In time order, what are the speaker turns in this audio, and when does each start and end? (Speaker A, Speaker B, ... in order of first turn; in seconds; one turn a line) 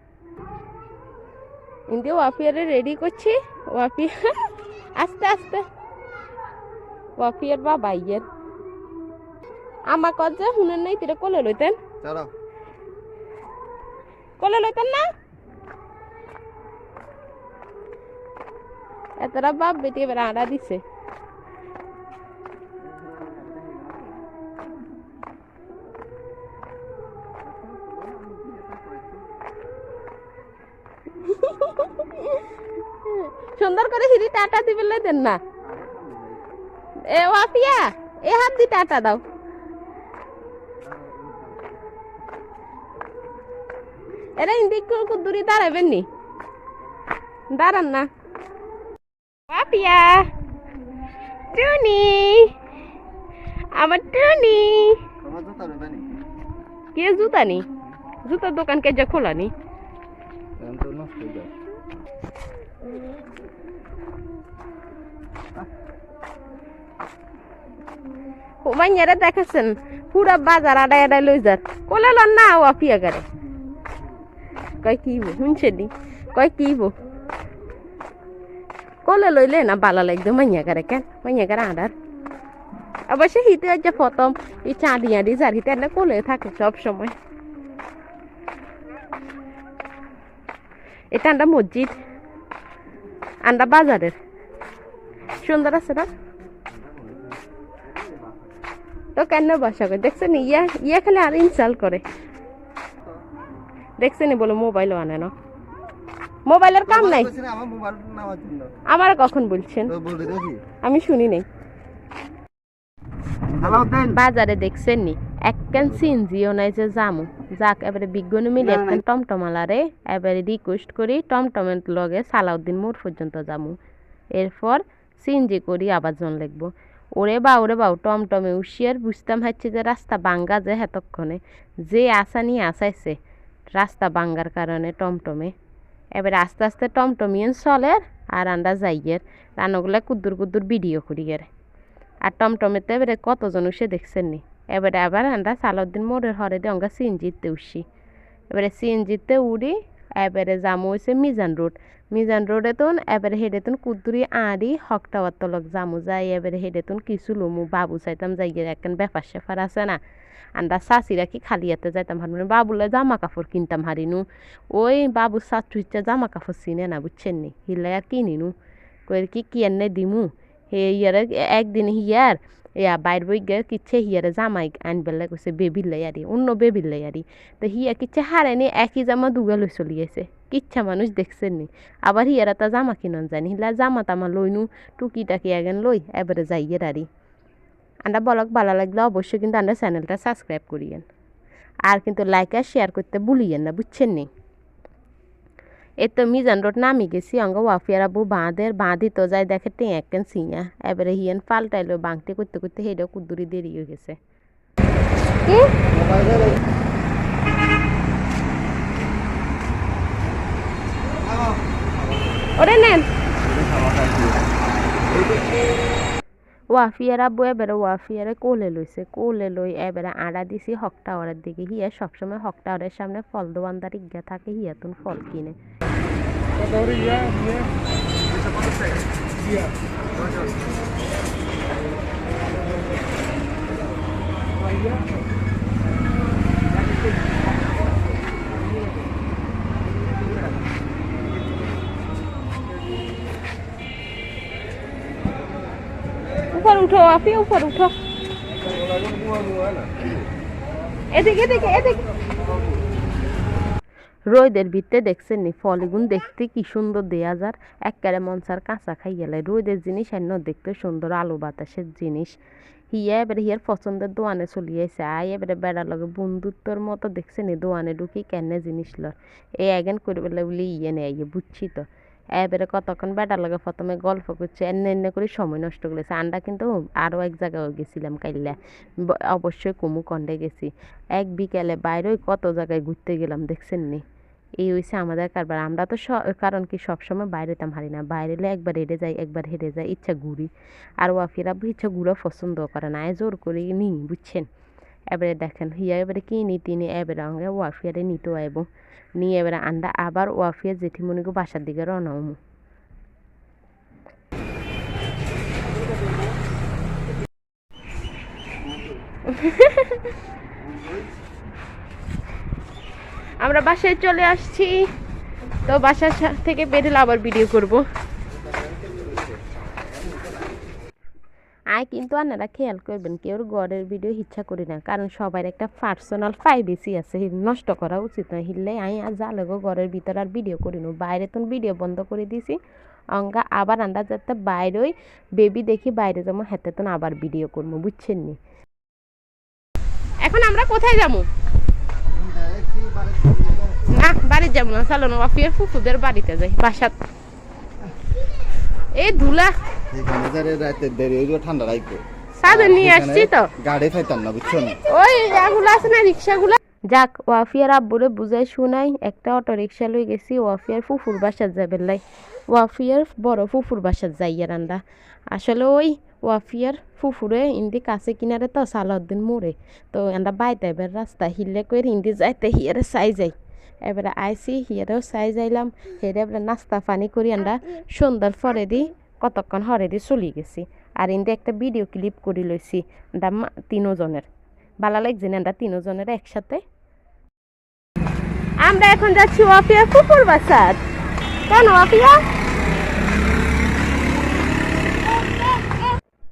Speaker A: 1.9-4.3
Speaker A: 4.9-5.6
Speaker A: 7.2-8.2
Speaker A: 9.9-11.8
Speaker B: 12.0-12.3
Speaker A: 14.4-15.1
Speaker A: 19.2-20.8
Speaker B: 22.9-24.1
Speaker B: 27.6-29.2
Speaker A: 31.2-32.4
Speaker A: 33.0-35.4
Speaker B: 35.7-36.4
Speaker A: 37.0-39.2
Speaker B: 40.8-41.7
Speaker A: 44.4-46.0
Speaker A: 47.5-48.1
Speaker A: 49.5-50.3
Speaker A: 51.5-52.5
Speaker A: 53.7-55.0
Speaker B: 55.2-56.1
Speaker A: 56.9-57.6
Speaker A: 58.2-59.5
Speaker B: 60.6-61.5
Speaker A: 68.6-73.3
Speaker A: 74.8-76.9
Speaker A: 79.0-81.9
Speaker A: 83.1-87.1
Speaker A: 91.1-91.9
Speaker A: 93.4-94.1
Speaker A: 95.3-96.1
Speaker A: 99.2-102.0
Speaker A: 104.0-105.3
Speaker A: 106.5-107.3
Speaker B: 106.9-108.7
Speaker A: 108.9-109.9
Speaker B: 109.9-110.6
Speaker A: 110.8-111.4
Speaker B: 113.5-114.1
Speaker A: 113.9-123.8
Speaker A: 124.3-133.2
Speaker A: 133.7-135.5
Speaker A: 136.1-141.5
Speaker A: 142.2-147.8
Speaker A: 148.5-160.0
Speaker A: 160.5-168.5
Speaker A: 169.1-187.1
Speaker A: 188.0-191.1
Speaker A: 191.9-194.3
Speaker A: 196.0-204.2
Speaker A: 205.4-205.7
Speaker B: 205.9-206.6
Speaker B: 211.2-211.6
Speaker A: 212.6-213.1
Speaker B: 213.4-214.4
Speaker B: 215.1-215.4
Speaker A: 216.7-225.6
Speaker A: 246.5-247.9
Speaker B: 248.7-250.2
Speaker A: 251.1-252.0
Speaker A: 254.3-262.4
Speaker A: 262.9-284.0
Speaker A: 284.6-294.5
Speaker A: 295.1-298.7
Speaker A: 299.2-302.4
Speaker A: 309.2-310.1
Speaker A: 313.4-314.8
Speaker A: 315.7-317.9
Speaker A: 321.7-332.6
Speaker A: 333.1-338.4
Speaker A: 340.2-341.3
Speaker B: 342.1-343.8
Speaker A: 343.9-347.0
Speaker A: 348.9-349.5
Speaker B: 349.9-354.8
Speaker A: 352.4-353.5
Speaker A: 354.9-384.3
Speaker A: 384.8-386.6
Speaker A: 388.6-390.8
Speaker A: 391.5-392.2
Speaker A: 395.1-395.8